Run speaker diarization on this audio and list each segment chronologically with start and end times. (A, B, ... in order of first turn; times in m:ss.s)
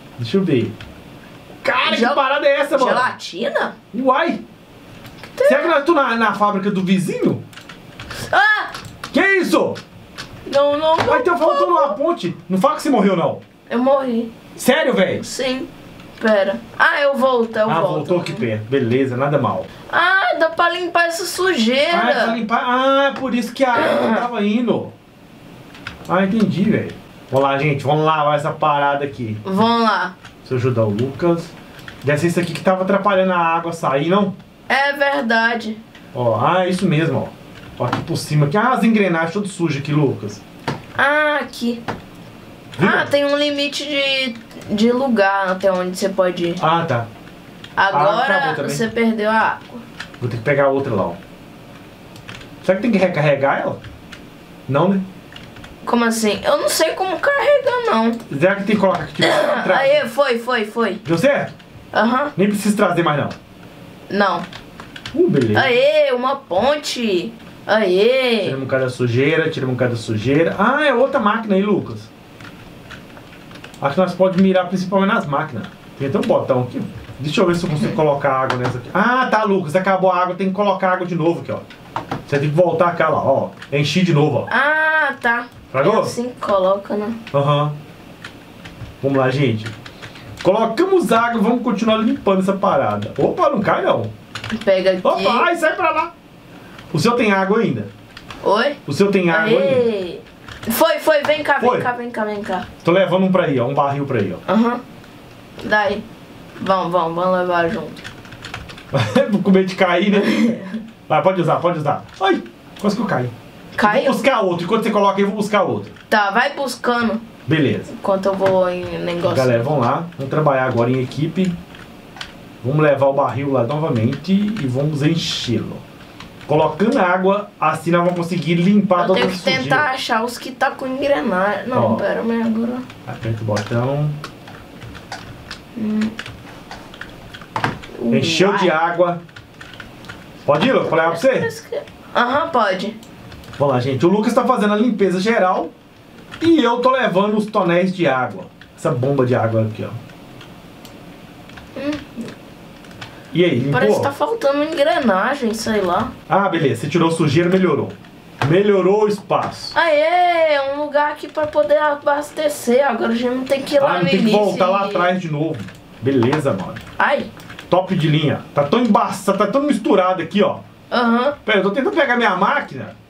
0:00.2-0:00.7 A
0:01.6-0:03.1 A
0:01.8-0:03.8 B
0:03.9-0:04.4 A
0:05.3-0:05.8 B
0:05.4-0:07.4 A
0:08.3-0:08.7 B
0:09.1-0:09.8 A
0:10.5-0:12.0 B
0:11.1-0:13.4 A
0:13.7-0:14.3 B
0:14.6-0:15.2 A
0:15.2-0:18.5 B
0:17.7-0:19.7 A
0:19.9-0:22.4 B
0:21.9-0:24.9 A
0:23.8-0:24.2 B
0:26.1-0:29.5 A
0:29.4-0:30.1 B
0:30.4-0:34.4 A
0:34.7-0:35.8 B
0:36.1-0:40.4 A
0:41.0-0:41.8 B
0:42.8-0:43.1 A
0:42.8-0:46.6 B
0:46.6-0:47.1 A
0:47.8-0:49.8 B
0:47.9-0:48.8 A
0:50.2-0:51.2 A
0:52.6-0:53.8 A
0:54.7-0:55.0 A
0:55.8-0:58.2 B
0:58.3-1:00.0 A
0:59.2-1:01.0 B
1:01.0-1:01.6 A
1:01.9-1:02.3 B
1:02.4-1:03.4 A
1:04.1-1:04.5 B
1:05.1-1:05.7 A
1:05.5-1:08.6 B
1:08.4-1:12.1 A
1:13.8-1:21.7 A
1:22.3-1:24.5 A
1:24.5-1:27.2 B
1:25.7-1:26.1 A
1:27.3-1:27.8 A
1:29.0-1:29.7 A
1:30.4-1:34.1 A
1:34.5-1:35.5 B
1:35.0-1:36.1 A
1:36.9-1:37.9 A
1:38.4-1:42.7 B
1:38.9-1:39.9 A
1:41.6-1:41.9 A
1:42.8-1:44.4 A
1:44.5-1:44.8 B
1:45.6-1:46.0 B
1:46.6-1:48.0 B
1:48.9-1:55.9 A
1:50.2-1:50.6 B
1:53.8-1:54.2 B
1:56.1-1:57.3 B
1:57.5-1:57.9 A
1:57.9-1:59.7 B
1:59.2-2:01.6 A
2:02.6-2:05.8 A
2:06.5-2:09.9 A
2:09.0-2:12.9 B
2:11.7-2:12.0 A
2:13.1-2:14.2 A
2:15.8-2:16.1 B
2:18.0-2:18.8 B
2:18.1-2:19.2 A
2:20.5-2:21.5 A
2:20.8-2:23.0 B
2:23.6-2:25.7 A
2:26.4-2:30.0 A
2:31.8-2:32.3 B
2:33.3-2:34.1 A
2:33.7-2:36.1 B
2:36.3-2:39.8 A
2:39.7-2:45.1 B
2:43.8-2:46.8 A
2:47.0-2:47.3 B
2:47.7-2:50.6 A
2:50.9-2:51.4 B
2:51.4-2:53.0 A